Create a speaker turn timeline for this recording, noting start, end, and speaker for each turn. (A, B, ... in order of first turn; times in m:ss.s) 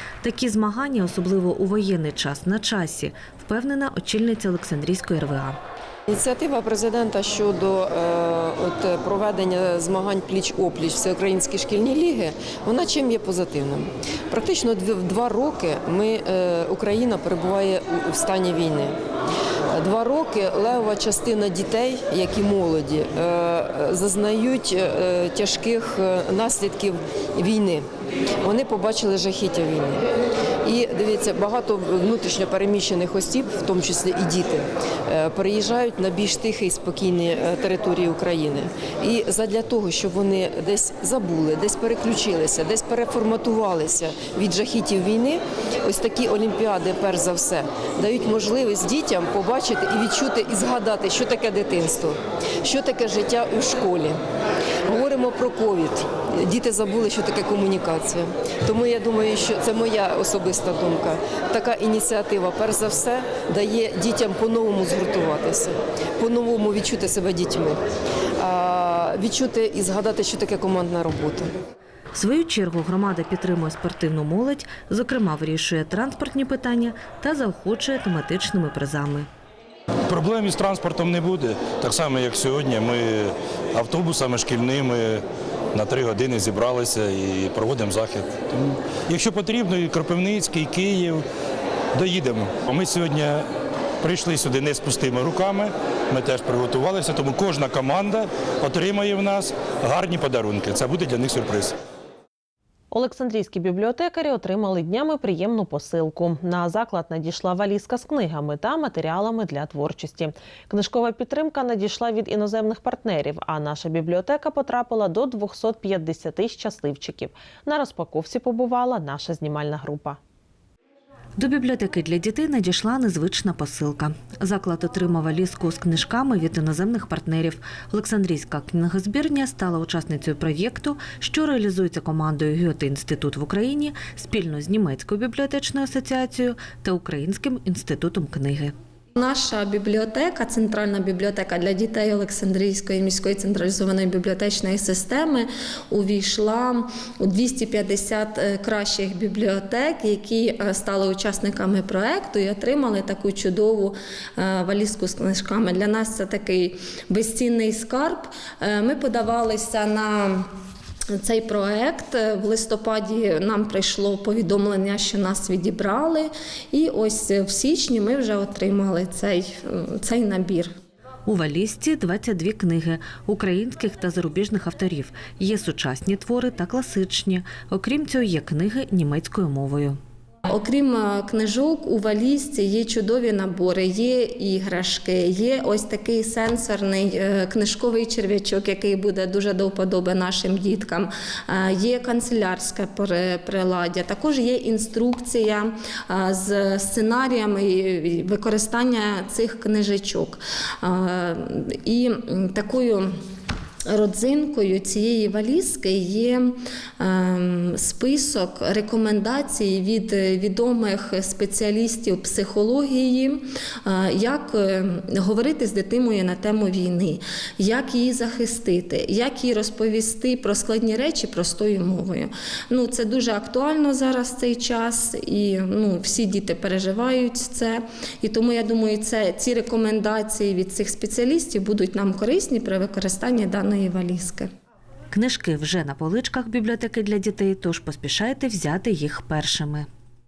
0:00.2-0:05.6 A
0:06.1-0:19.0 B
0:19.7-0:27.8 B
0:28.4-0:30.0 B
0:30.6-0:54.2 B
0:54.8-1:07.8 B
1:08.4-1:11.5 B
1:12.1-1:19.3 A
1:20.1-1:25.2 C
1:25.7-1:31.2 C
1:31.9-1:33.4 C
1:34.0-1:41.7 C
1:42.9-2:00.2 D
2:01.4-2:18.7 A
2:19.2-2:40.4 E
2:41.2-2:50.7 E
2:51.2-3:00.0 A
3:00.5-3:23.1 E
3:23.9-3:54.5 E
3:55.1-3:59.9 A